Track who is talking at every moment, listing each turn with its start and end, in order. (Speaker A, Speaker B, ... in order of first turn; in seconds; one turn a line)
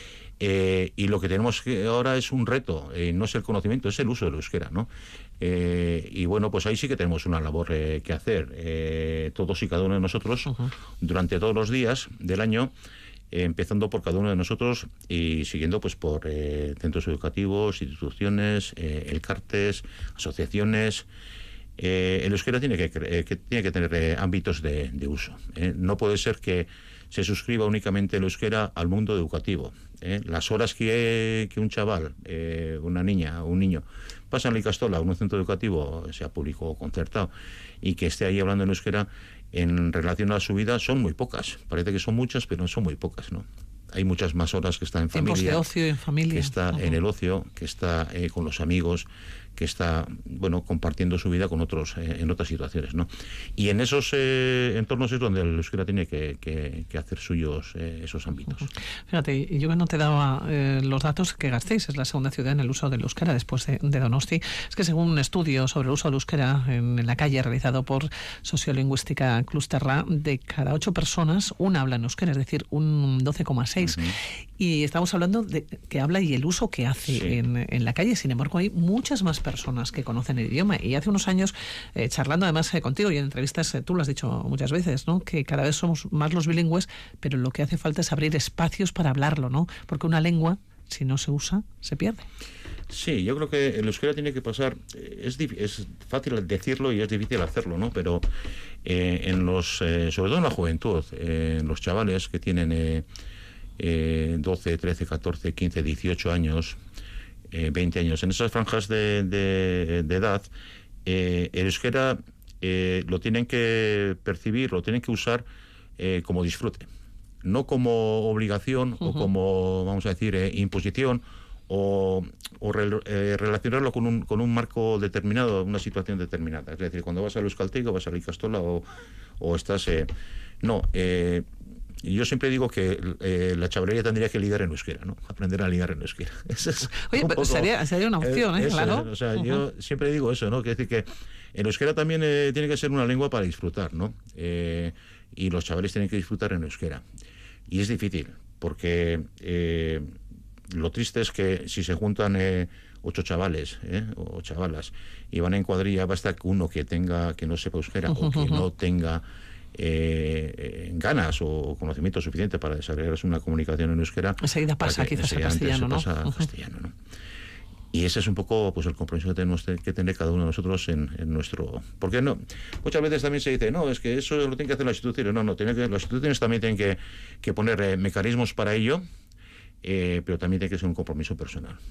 Speaker A: 0.4-12.7
Speaker A: 13.3-21.1
Speaker A: 21.8-45.6
Speaker B: 45.1-47.0
Speaker A: 46.3-58.7
Speaker B: 59.1-92.3
Speaker A: 73.8-74.2
Speaker A: 77.0-77.4
Speaker A: 92.9-98.2
Speaker A: 98.8-103.0
Speaker A: 103.8-106.8
Speaker A: 107.5-110.5
Speaker A: 111.0-115.5
Speaker A: 116.0-116.9
Speaker A: 117.4-128.8
Speaker A: 129.4-131.5
Speaker A: 132.0-147.0
Speaker B: 136.9-139.6
Speaker A: 147.7-150.2
Speaker A: 150.7-159.2
Speaker B: 158.1-158.7
Speaker A: 159.7-166.9
Speaker B: 164.4-166.4
Speaker A: 167.9-179.0
Speaker A: 179.8-181.8